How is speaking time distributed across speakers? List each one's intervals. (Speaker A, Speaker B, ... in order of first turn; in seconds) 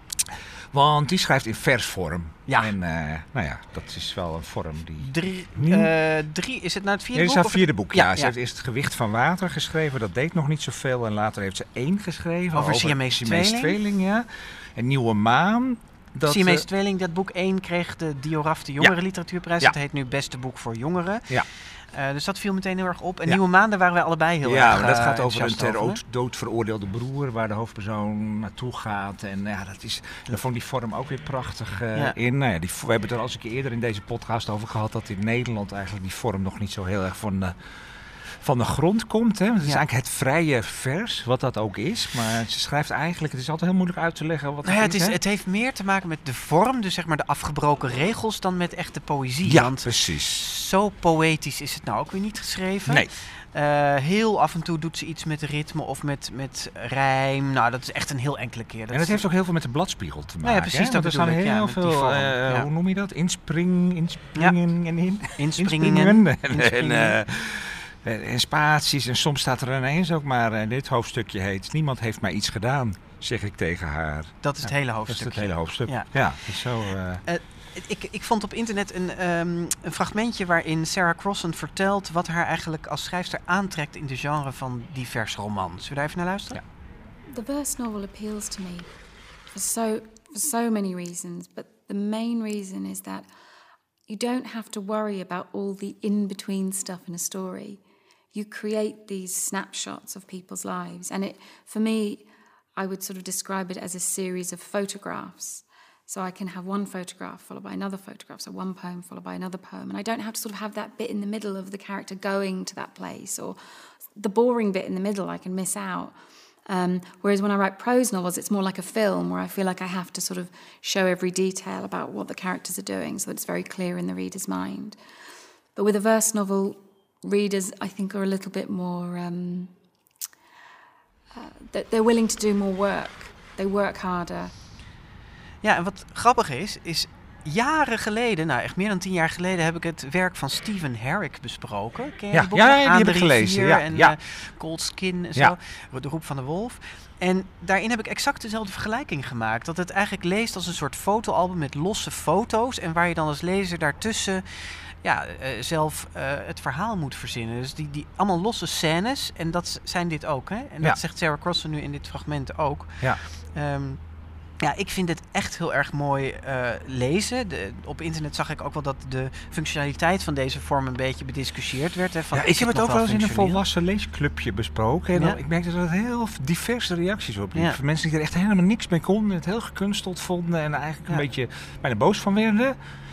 Speaker A: 0.3-5.9, 7.1-16.6, 24.4-37.5, 38.4-45.2, 49.4-50.4, 58.9-77.2, 142.3-144.2, 172.3-182.8
Speaker B: 2.5-2.7, 5.0-8.3, 12.5-13.8, 16.2-26.0, 44.6-59.2, 60.4-62.7, 65.4-67.2, 74.4-76.1, 77.2-86.6, 135.6-164.0, 164.6-173.6
Speaker C: 87.3-88.9, 89.5-93.3, 94.1-97.8, 98.3-113.6, 114.2-116.1, 116.7-125.0, 125.7-129.7, 131.3-134.5